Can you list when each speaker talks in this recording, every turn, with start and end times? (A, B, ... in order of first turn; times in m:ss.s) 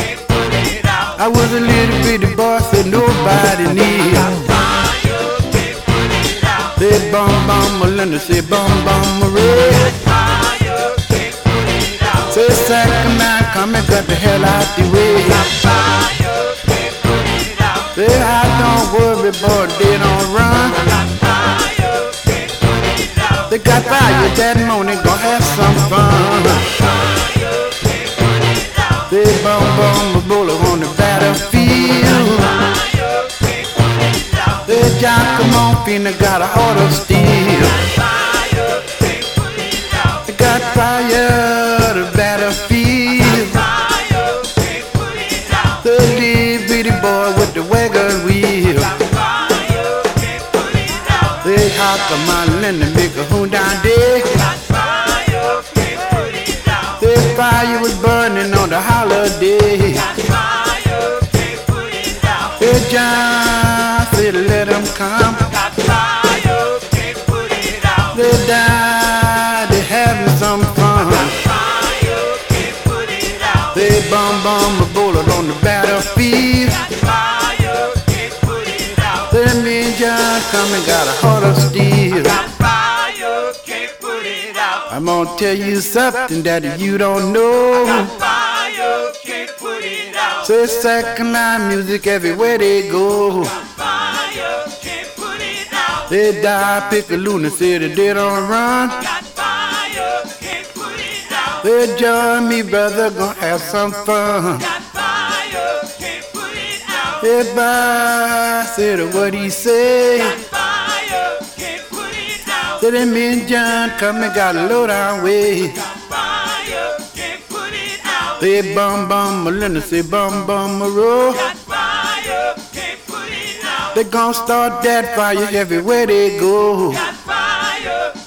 0:01.1-0:04.5 A
0:06.7-0:10.1 A
0:12.1-0:15.7 A
0:17.9-0:21.0 A
0:23.4-0:26.8 A
0:29.0-0:32.8 A
0:34.6-0:38.0 A
0:40.2-0:43.8 A
0:45.7-0:49.1 A
0:51.3-0:54.5 A
0:56.8-1:00.3 A
1:02.4-1:05.7 A
1:08.0-1:11.5 A
1:13.6-1:17.0 A
1:19.0-1:22.6 A
1:24.8-1:28.4 A
1:29.8-1:33.8 A
1:35.9-1:39.3 A
1:41.4-1:44.7 A
1:47.1-1:50.5 A
1:52.4-1:56.1 A
1:58.1-2:01.7 A
2:03.8-2:07.2 A